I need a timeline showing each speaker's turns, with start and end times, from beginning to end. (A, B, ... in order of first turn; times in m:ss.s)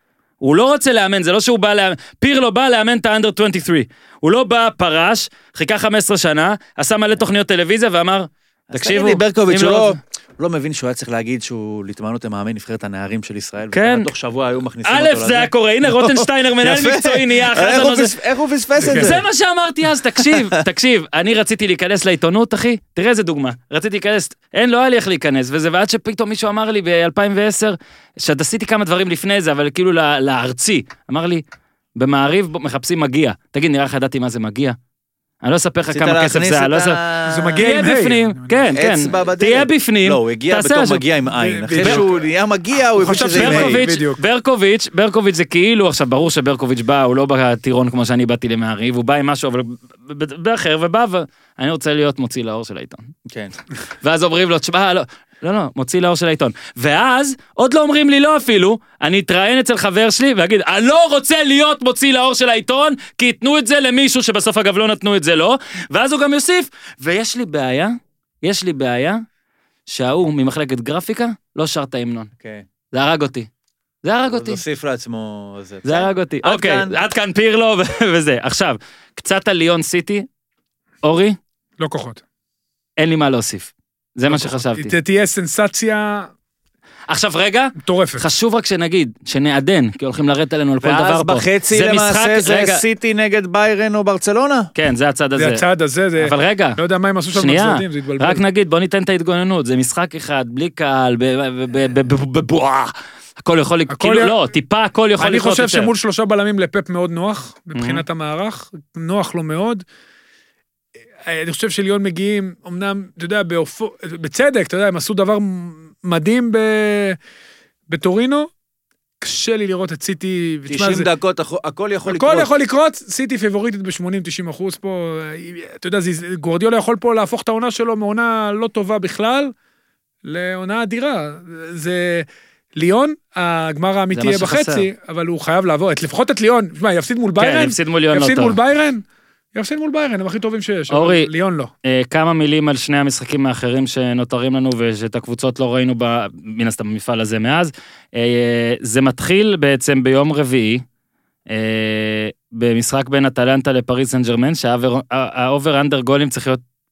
0:00.4-0:10.0 A
0:08.7-0:19.2 B
0:13.7-0:14.1 A
0:14.8-0:18.2 A
0:18.8-0:31.4 A
0:18.8-0:19.1 C
0:20.2-0:20.5 B
0:32.0-0:34.8 A
0:35.4-0:37.0 A
0:35.9-0:37.7 B
0:37.3-0:38.6 C
0:37.6-0:41.0 A
0:38.7-0:43.9 B
0:41.3-0:42.2 C
0:41.8-0:42.0 A
0:43.0-0:44.2 C
0:43.3-0:53.1 A
0:53.3-0:53.6 B
0:54.0-1:09.2 A
1:09.9-1:12.3 A
1:12.4-1:12.6 B
1:12.9-1:13.5 A
1:14.0-1:14.6 A
1:14.3-1:17.0 B
1:15.8-1:20.3 A
1:21.0-1:21.4 A
1:21.8-1:22.2 C
1:23.0-1:24.9 A
1:24.3-1:26.3 C
1:27.1-1:32.8 A
1:27.8-1:28.2 C
1:30.8-1:34.7 B
1:34.8-1:35.6 A
1:35.4-1:38.4 C
1:36.2-1:36.8 A
1:37.3-1:45.9 A
1:43.9-1:44.5 C
1:45.2-1:49.8 C
1:47.7-1:48.0 A
1:51.2-1:57.2 C
1:57.9-1:58.5 C
1:59.2-2:01.1 C
2:00.7-2:02.5 B
2:02.1-2:09.5 C
2:10.2-2:19.0 C
2:14.1-2:14.9 A
2:17.4-2:18.6 A
2:19.6-2:21.7 C
2:20.9-2:21.3 A
2:21.8-2:30.8 A
2:31.5-2:36.6 A